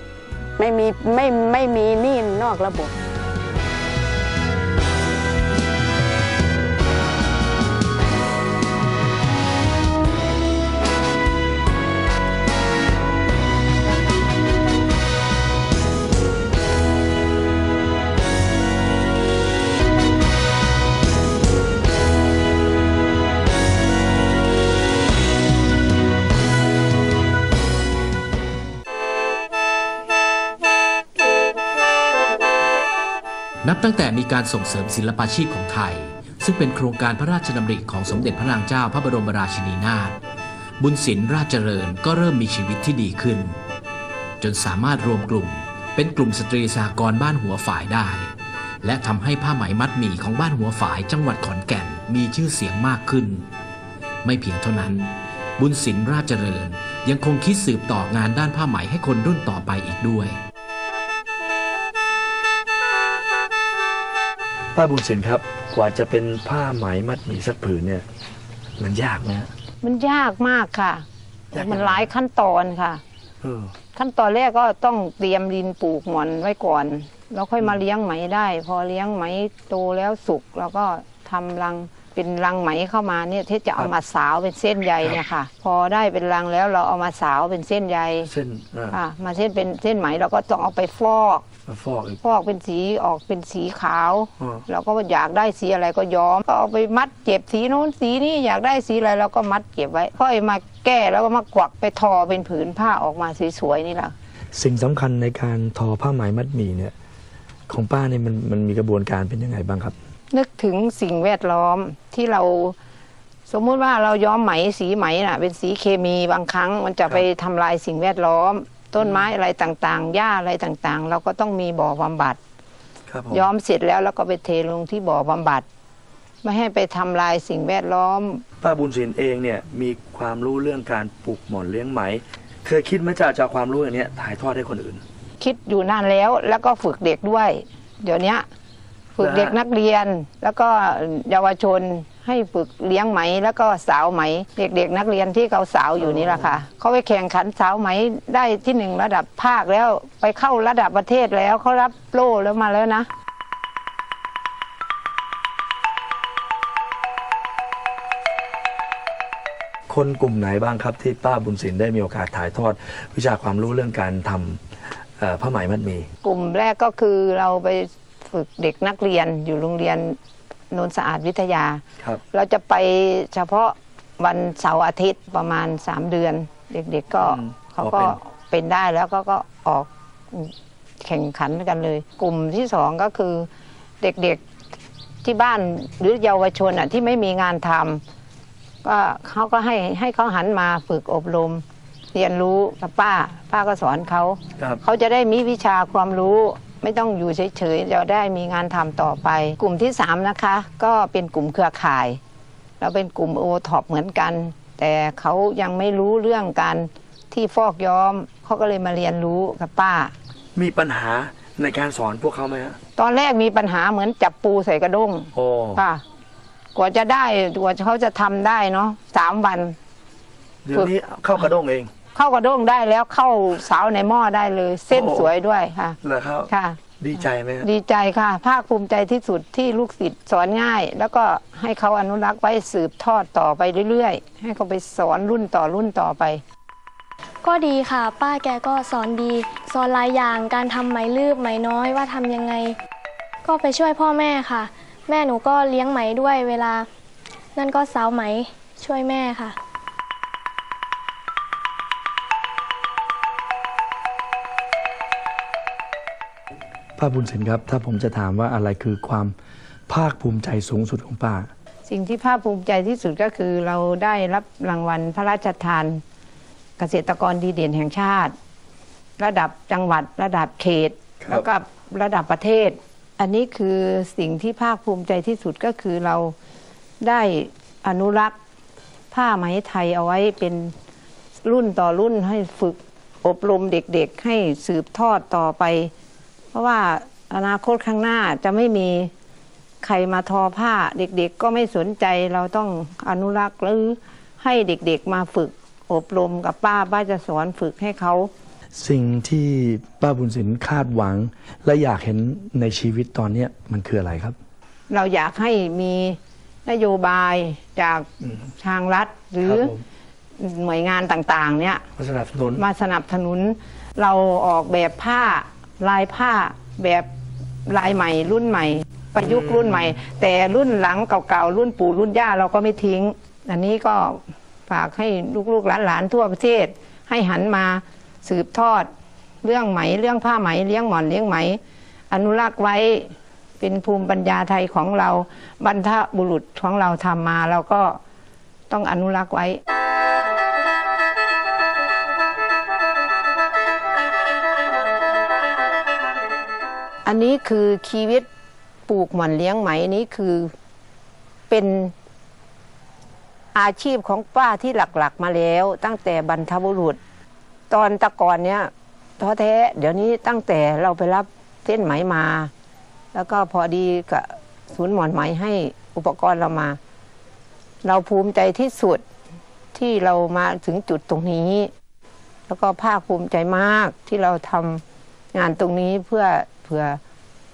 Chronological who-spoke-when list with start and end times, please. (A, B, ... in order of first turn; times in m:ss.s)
0:00.6-0:02.9 A
0:33.6-0:40.2 B
0:40.8-0:43.6 B
0:44.4-0:48.3 B
0:48.8-0:53.5 B
0:54.2-1:00.4 B
1:04.7-1:08.0 C
1:08.8-1:09.5 C
1:09.8-1:13.0 D
1:11.5-1:12.1 C
1:13.4-1:13.7 C
1:13.9-1:28.3 D
1:28.2-1:29.0 C
1:28.9-1:31.4 D
1:31.6-1:32.2 C
1:32.2-1:44.1 D
1:44.5-1:46.9 C
1:47.7-1:49.9 C
1:50.3-1:52.8 D
1:53.5-2:02.4 D
2:03.1-2:03.5 C
2:03.3-2:05.6 D
2:06.4-2:08.4 D
2:08.6-2:15.0 C
2:15.4-2:18.4 D
2:19.1-2:33.1 D
2:19.2-2:19.6 C
2:26.0-2:26.5 C
2:39.9-2:44.6 C
2:45.2-2:46.1 C
2:46.2-2:50.2 D
2:50.7-3:00.5 D
2:57.2-2:58.2 C
3:01.0-3:03.5 D
3:04.0-3:04.4 D
3:05.2-3:08.0 D
3:08.8-3:22.2 D
3:22.8-3:30.1 D
3:30.5-3:32.8 C
3:33.0-3:36.0 D
3:35.3-3:35.8 C
3:36.7-3:39.8 D
3:40.6-3:41.9 C
3:42.1-3:46.8 D
3:44.9-3:45.3 C
3:46.0-3:47.7 C
3:47.6-3:56.4 D
3:57.4-4:02.8 E
4:03.4-4:06.8 E
4:07.5-4:09.5 E
4:17.0-4:19.3 C
4:19.9-4:21.5 C
4:21.8-4:26.0 D
4:26.8-4:28.3 D
4:29.2-4:36.3 D
4:37.0-4:38.3 D
4:39.1-4:40.7 D
4:41.4-4:45.9 D
4:46.5-4:49.1 D
4:49.8-4:58.3 D
4:58.8-5:04.4 C
5:04.9-5:08.1 D
5:08.6-5:09.7 D
5:09.4-5:09.8 C
5:10.4-5:11.8 D
5:12.0-5:12.6 C
5:12.6-5:17.1 D
5:17.7-5:28.9 D
5:19.2-5:19.9 C
5:29.4-5:31.6 D
5:32.1-5:38.0 D
5:38.7-5:39.6 D
5:47.0-5:48.2 D
5:48.9-5:50.5 D
5:51.5-5:51.9 D
5:53.5-5:57.0 D
5:57.7-6:02.5 D
6:03.1-6:06.8 D
6:07.8-6:09.0 D
6:09.7-6:11.7 D
6:12.5-6:14.8 D
6:15.3-6:17.0 D